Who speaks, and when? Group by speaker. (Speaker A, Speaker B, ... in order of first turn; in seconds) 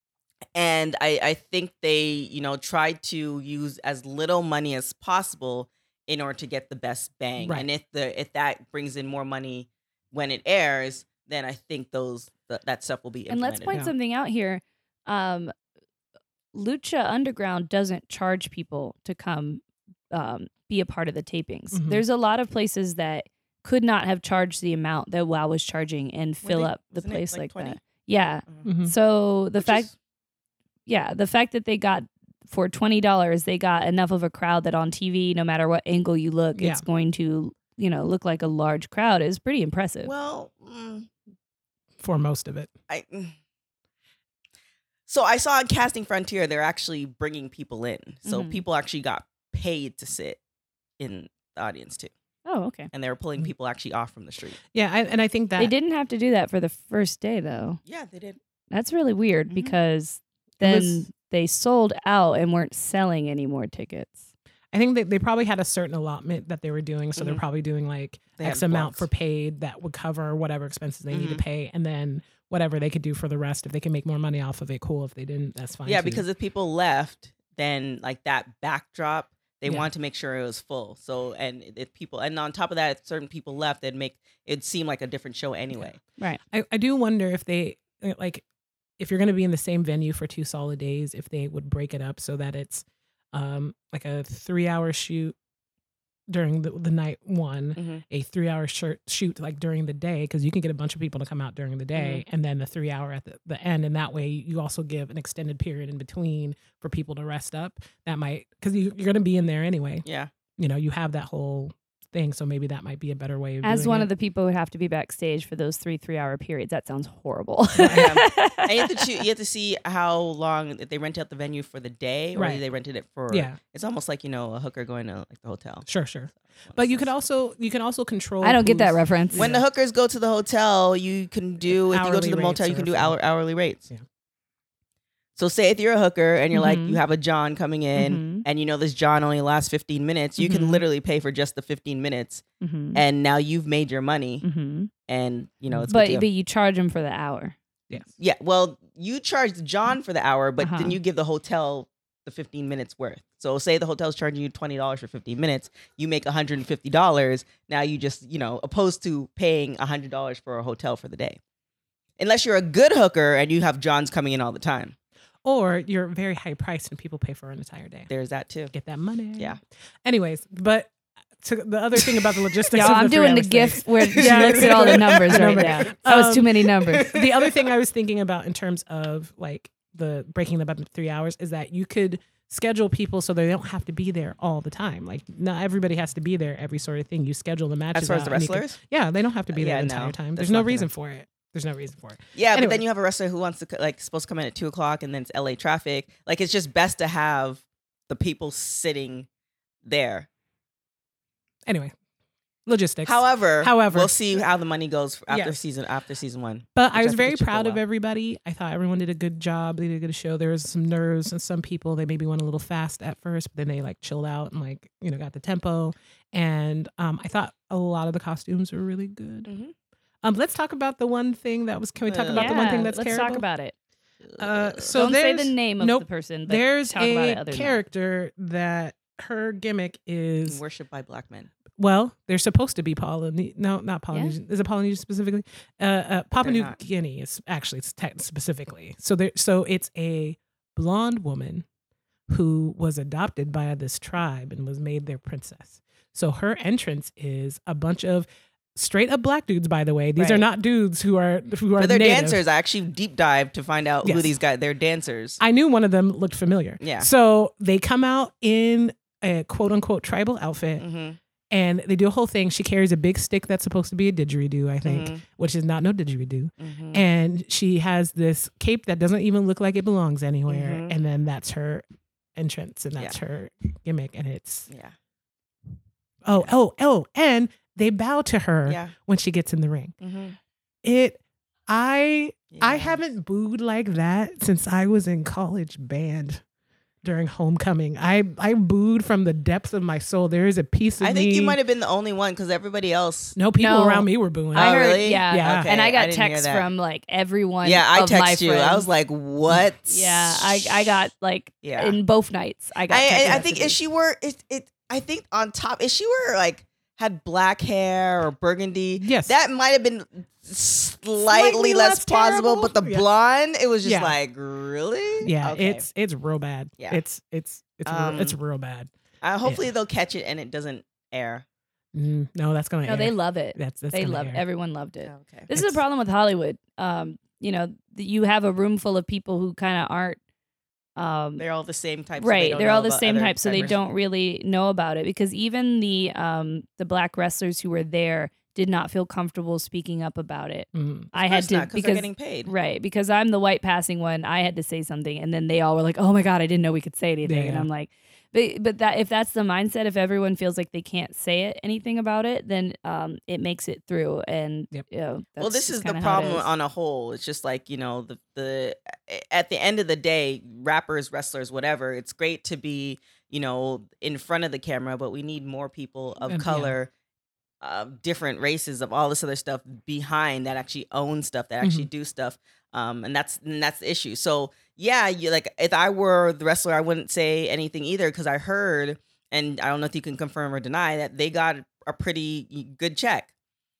Speaker A: 0.6-13.8, 26.4-27.8, 29.6-29.9, 40.0-41.1, 42.9-43.3, 45.1-50.4, 51.0-52.1, 52.9-54.6, 57.9-58.4, 67.2-67.4, 68.4-69.0, 71.1-71.4, 75.9-86.0, 97.8-98.0, 110.0-110.3, 117.8-125.9, 126.6-127.1, 129.4-133.9, 135.4-142.4, 142.9-144.4, 145.1-146.3, 148.2-161.4, 162.2-164.9, 168.1-168.7, 174.1-175.9, 176.9-177.6, 187.9-188.8, 189.5-190.9, 192.3-199.3, 199.8-200.3, 203.1-207.8, 219.5-219.7, 222.1-222.9, 224.2-225.0, 230.4-231.5, 236.4-236.8, 251.8-255.4, 256.8-257.1, 260.8-261.2, 264.8-265.2, 266.6-267.0, 270.5-270.9, 274.7-274.9, 278.6-278.9, 280.0-280.4, 282.5-283.0, 291.0-293.4, 294.6-296.7, 297.6-301.1, 301.6-301.9, 302.9-315.8, 317.9-318.4, 319.2-321.4, 325.1-325.5, 331.4-333.8, 341.2-342.5, 355.4-366.9, 367.6-383.3
Speaker B: 7.4-7.7, 21.7-22.0, 28.6-28.9, 36.5-36.8, 42.0-42.7, 54.7-55.7, 60.6-61.0, 64.7-76.2, 86.5-88.4, 89.0-95.3, 96.3-110.0, 110.6-114.1, 117.8-118.2, 122.3-122.6, 123.3-123.6, 125.9-129.6, 131.6-133.1, 165.4-168.1, 168.7-192.8, 201.7-201.9, 202.7-204.1, 205.3-205.6, 206.8-219.5, 220.2-223.4, 224.4-230.6, 231.8-241.7, 242.3-252.4, 254.0-254.3, 255.4-260.8, 261.5-271.8, 272.4-274.7, 276.2-279.9, 280.8-286.4, 287.0-291.6, 293.4-295.7, 309.0-309.3, 311.2-313.1, 313.8-314.1, 315.2-318.9, 321.9-324.4, 325.5-325.8, 340.7-341.1, 347.2-347.7, 366.3-366.7, 371.6-371.9
Speaker C: 13.3-15.5, 16.5-29.9, 30.9-40.1, 48.3-48.6, 52.5-52.9, 55.6-57.8, 58.7-64.3, 113.6-119.1, 128.4-129.5, 136.5-137.0, 137.9-138.4, 140.4-140.8, 142.6-143.0, 144.4-144.9, 145.9-147.6, 150.6-151.0, 172.7-177.1, 222.3-223.7, 224.9-227.8, 250.2-250.4, 293.6-298.9, 299.9-303.8, 322.8-330.2, 330.9-331.4, 332.2-356.5